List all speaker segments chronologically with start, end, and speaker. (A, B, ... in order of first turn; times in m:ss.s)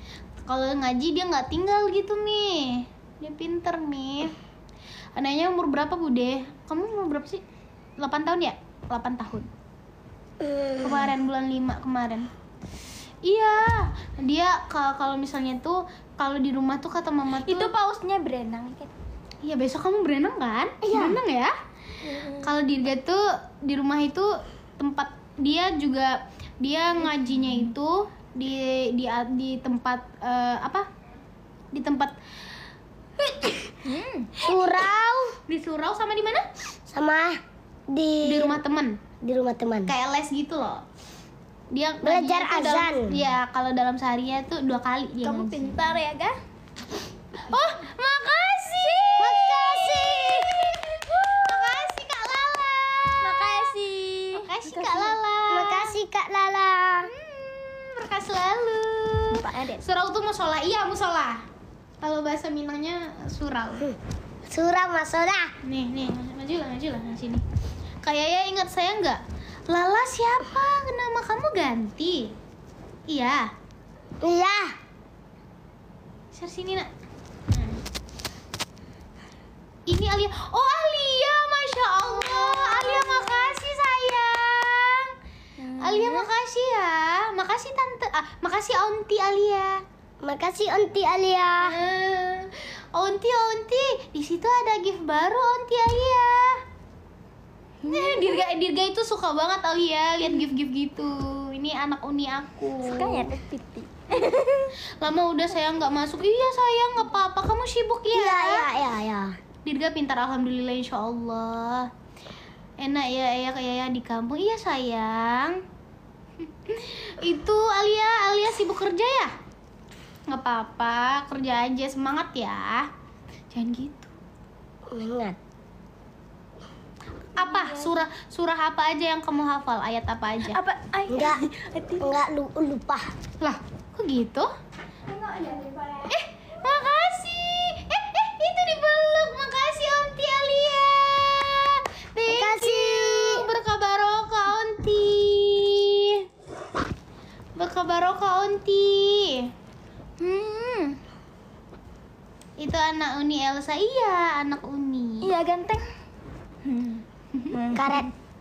0:00.4-0:04.3 A
0:05.2-0:07.4 A
0:08.0-0:09.5 A
0:10.4-0:11.1 B
0:10.8-0:12.3 A
0:13.2-0:17.7 A
0:17.4-0:18.9 C
0:19.4-0:21.5 A
0:20.8-0:21.2 B
0:22.0-0:22.5 C
0:22.4-0:30.8 A
0:31.7-0:32.1 A
0:33.8-0:34.3 C
0:34.4-0:35.4 B
0:35.4-0:36.4 A
0:36.9-0:38.6 B
0:38.2-0:39.0 A
0:39.2-0:39.9 B
0:39.8-0:40.8 A
0:41.7-0:46.0 A
0:42.0-0:43.1 B
0:45.2-0:46.4 C
0:47.4-0:53.8 A
0:49.2-0:50.7 B
0:53.2-0:55.2 C
0:54.4-0:56.0 A
0:55.5-0:57.1 B
0:57.0-1:01.4 A
0:59.3-0:59.8 C
1:02.0-1:03.9 A
1:04.5-1:05.5 B
1:05.6-1:07.4 A
1:08.0-1:12.3 A
1:13.1-1:13.5 A
1:14.2-1:14.7 B
1:16.3-1:16.9 A
1:17.5-1:17.8 A
1:19.9-1:25.1 A
1:25.6-1:26.3 C
1:25.8-1:29.8 A
1:30.2-1:31.8 B
1:31.6-1:36.6 A
1:37.8-1:38.4 C
1:37.8-1:43.3 A
1:42.8-1:44.7 C
1:45.0-1:48.7 A
1:48.1-1:49.3 B
1:49.6-1:51.9 A
1:52.8-1:55.6 A
1:56.6-1:59.3 A
2:00.3-2:02.9 A
2:03.5-2:04.1 A
2:04.9-2:05.4 B
2:07.3-2:10.6 A
2:07.4-2:08.0 C
2:10.5-2:12.2 C
2:11.1-2:11.4 B
2:12.0-2:13.1 B
2:13.4-2:14.5 A
2:15.1-2:16.1 C
2:16.1-2:26.2 A
2:22.3-2:23.5 B
2:27.6-2:29.5 A
2:30.2-2:31.0 C
2:32.6-2:35.3 A
2:35.2-2:35.8 C
2:36.6-2:38.1 C
2:37.7-2:38.1 B